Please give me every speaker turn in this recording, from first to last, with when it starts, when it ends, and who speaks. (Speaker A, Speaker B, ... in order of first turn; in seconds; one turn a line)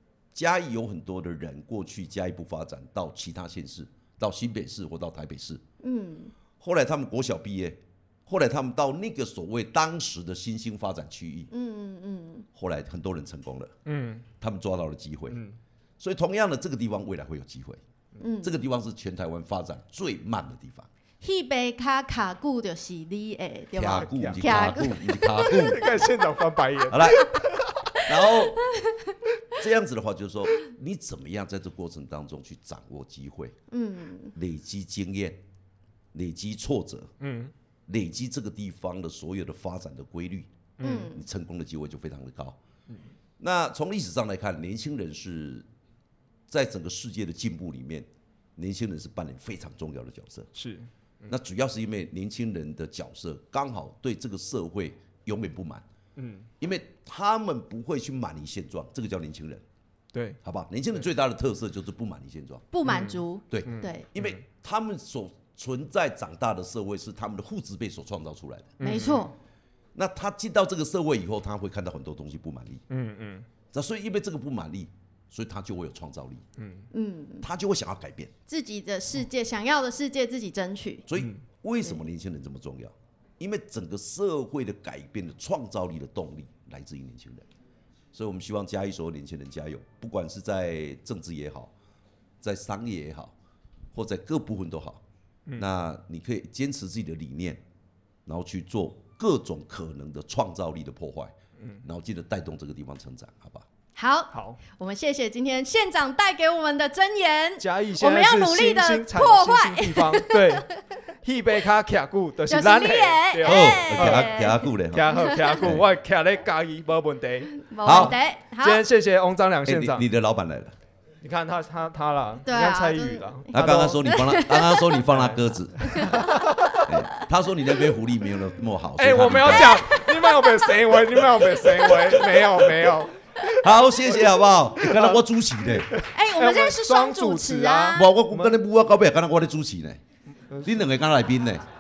Speaker A: 0.3-5.6
Speaker B: 5.8-6.3
Speaker A: 6.6-11.5
Speaker B: 11.5-12.5
Speaker A: 12.6-13.7
Speaker C: 13.8-14.3
Speaker A: 14.4-15.4
Speaker C: 15.3-15.6
Speaker A: 16.0-17.8
Speaker B: 18.2-18.6
Speaker A: 18.4-20.9
Speaker B: 21.2-25.8
Speaker A: 23.8-26.1
Speaker C: 24.0-27.9
Speaker A: 26.9-27.4
Speaker A: 28.0-28.6
Speaker A: 29.5-33.5
Speaker B: 33.7-34.3
Speaker A: 34.4-35.4
Speaker A: 36.1-37.1
Speaker C: 37.2-37.5
Speaker A: 37.9-42.6
Speaker C: 40.8-41.1
Speaker B: 40.8-41.2
Speaker A: 43.4-45.7
Speaker A: 46.5-50.5
Speaker C: 50.5-51.3
Speaker A: 51.3-55.8
Speaker C: 56.2-56.5
Speaker A: 56.6-59.6
Speaker C: 60.1-60.4
Speaker A: 60.4-62.7
Speaker B: 62.7-64.1
Speaker C: 62.9-64.4
Speaker A: 63.5-69.0
Speaker C: 68.8-69.3
Speaker B: 68.8-69.3
Speaker A: 70.0-72.8
Speaker C: 72.9-73.5
Speaker A: 73.7-76.5
Speaker C: 76.6-76.9
Speaker B: 76.9-77.5
Speaker A: 77.4-78.3
Speaker B: 78.5-81.1
Speaker A: 81.1-87.5
Speaker C: 81.2-81.4
Speaker A: 88.1-91.7
Speaker A: 92.4-93.3
Speaker A: 93.9-95.0
Speaker A: 95.6-97.6
Speaker A: 98.3-103.7
Speaker C: 101.6-101.8
Speaker B: 104.0-110.8
Speaker C: 104.3-104.6
Speaker C: 107.6-110.7
Speaker C: 111.2-120.1
Speaker B: 112.5-115.6
Speaker A: 113.4-115.8
Speaker B: 117.5-118.8
Speaker A: 117.8-118.2
Speaker A: 119.7-120.7
Speaker C: 121.2-124.0
Speaker B: 122.5-123.5
Speaker A: 123.5-126.3
Speaker B: 124.0-124.9
Speaker C: 125.1-126.9
Speaker B: 125.8-127.2
Speaker A: 126.8-129.8
Speaker C: 129.0-133.6
Speaker B: 129.5-132.3
Speaker A: 133.5-135.9
Speaker C: 134.8-138.6
Speaker B: 136.0-138.2
Speaker A: 137.9-140.0
Speaker C: 140.5-140.9
Speaker A: 140.6-141.6